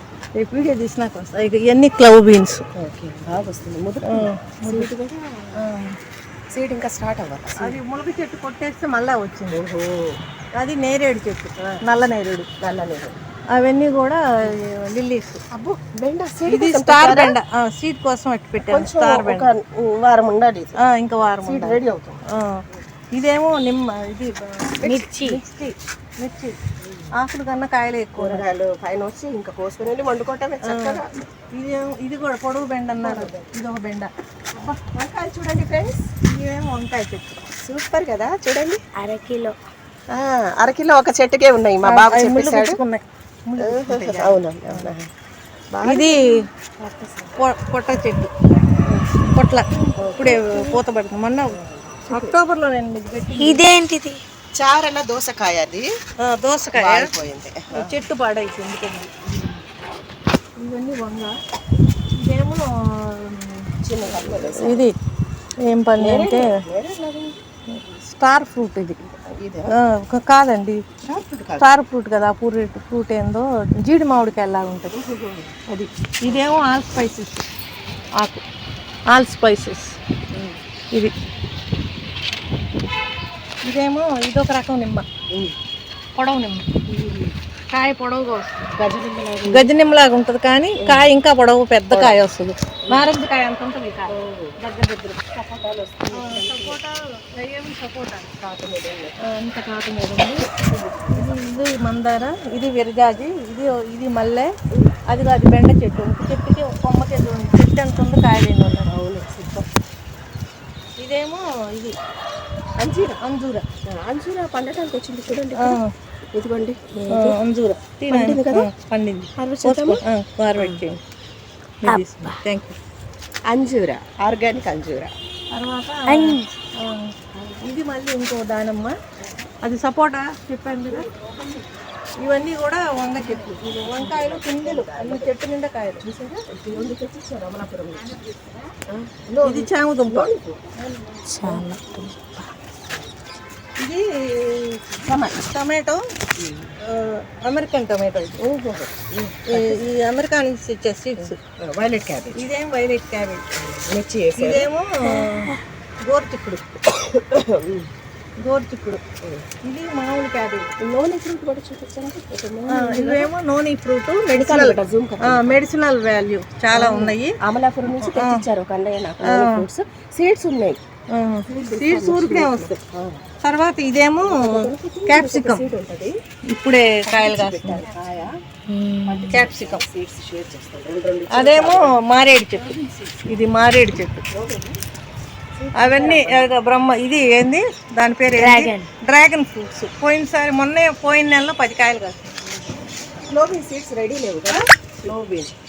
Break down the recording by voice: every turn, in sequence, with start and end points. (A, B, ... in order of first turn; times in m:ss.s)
0:00.4-0:02.6 A
0:02.8-0:05.6 B
0:04.1-0:04.9 A
0:05.6-0:06.0 A
0:06.5-0:07.8 B
0:07.6-0:09.6 A
0:09.5-0:10.2 B
0:10.6-0:12.5 A
0:11.6-0:11.8 B
0:12.6-0:13.1 B
0:13.6-0:15.4 A
0:15.5-0:17.4 B
0:16.5-0:19.5 A
0:18.6-0:20.8 B
0:20.8-0:21.8 A
0:21.4-0:22.2 B
0:22.3-0:22.6 A
0:23.1-0:26.6 A
0:24.8-0:25.4 C
0:26.8-0:27.1 B
0:27.2-0:28.4 A
0:28.2-0:31.3 B
0:30.6-0:31.0 A
0:31.5-0:34.8 A
0:33.0-0:33.5 B
0:34.7-0:36.0 B
0:36.2-0:37.4 A
0:37.5-0:38.8 B
0:39.0-0:39.6 C
0:40.1-0:42.8 B
0:41.8-0:44.9 A
0:43.6-0:45.1 B
0:45.7-0:47.4 B
0:45.8-0:46.4 A
0:47.4-0:48.3 A
0:49.3-0:51.6 A
0:50.0-0:50.8 B
0:51.5-0:52.4 B
0:52.1-0:53.7 A
0:53.4-0:54.2 C
0:54.6-0:55.9 B
0:56.2-0:57.1 A
0:56.7-0:58.0 B
0:57.8-0:59.1 A
0:59.3-0:59.6 B
1:00.6-1:01.3 A
1:02.1-1:04.9 A
1:03.8-1:04.9 B
1:05.7-1:06.6 A
1:06.0-1:07.4 B
1:07.7-1:09.0 A
1:09.0-1:09.7 B
1:09.7-1:10.9 A
1:11.0-1:11.7 B
1:11.6-1:14.9 A
1:14.9-1:16.6 B
1:16.2-1:17.4 A
1:18.2-1:18.4 A
1:19.1-1:20.0 A
1:20.3-1:20.6 B
1:23.6-1:25.1 A
1:26.2-1:26.6 A
1:26.9-1:27.4 B
1:27.7-1:28.7 A
1:28.8-1:29.7 B
1:29.5-1:35.2 A
1:30.8-1:31.1 B
1:31.9-1:32.2 B
1:34.1-1:34.6 B
1:35.3-1:36.8 B
1:36.1-1:38.4 A
1:38.4-1:39.2 B
1:39.2-1:40.5 A
1:40.4-1:41.4 B
1:41.1-1:44.5 A
1:45.1-1:48.9 A
1:48.9-1:49.7 B
1:51.0-1:52.0 A
1:52.8-1:53.2 B
1:53.2-1:53.6 A
1:53.9-1:55.8 B
1:55.6-1:55.9 A
1:56.3-1:57.4 B
1:57.1-2:01.0 A
1:58.1-1:58.7 B
1:59.4-2:00.0 B
2:00.6-2:00.8 B
2:01.8-2:02.8 A
2:01.8-2:02.4 C
2:03.5-2:05.1 B
2:05.5-2:09.0 A
2:06.1-2:06.5 C
2:07.3-2:07.6 B
2:09.6-2:11.1 A
2:10.9-2:11.7 B
2:12.2-2:16.0 A
2:13.0-2:15.3 B
2:16.0-2:18.2 B
2:18.2-2:18.6 C
2:18.9-2:20.9 B
2:19.4-2:20.3 A
2:21.3-2:22.5 C
2:23.8-2:24.8 A
2:24.9-2:25.4 B
2:25.4-2:26.0 A
2:26.4-2:26.7 B
2:26.8-2:28.4 A
2:28.4-2:29.8 B
2:29.5-2:31.4 A
2:31.2-2:32.4 B
2:32.4-2:33.4 A
2:33.6-2:35.5 B
2:34.4-2:36.6 A
2:36.9-2:37.9 B
2:38.4-2:39.0 A
2:39.6-2:40.7 A
2:40.8-2:43.3 B
2:42.7-2:47.4 A
2:44.4-2:45.6 B
2:46.7-2:50.8 B
2:48.0-2:48.4 A
2:49.2-2:49.6 A
2:51.1-2:52.8 A
2:51.5-2:53.2 B
2:53.4-2:55.6 A
2:54.2-2:56.2 B
2:56.5-2:57.9 A
2:57.0-2:58.3 B
2:58.7-2:59.4 C
2:59.0-3:01.9 B
2:59.3-2:59.8 A
3:01.3-3:02.7 A
3:02.5-3:03.3 B
3:03.3-3:04.2 A
3:04.3-3:04.8 B
3:05.6-3:06.5 B
3:05.8-3:12.7 A
3:08.3-3:08.9 C
3:13.3-3:15.5 B
3:14.5-3:15.1 A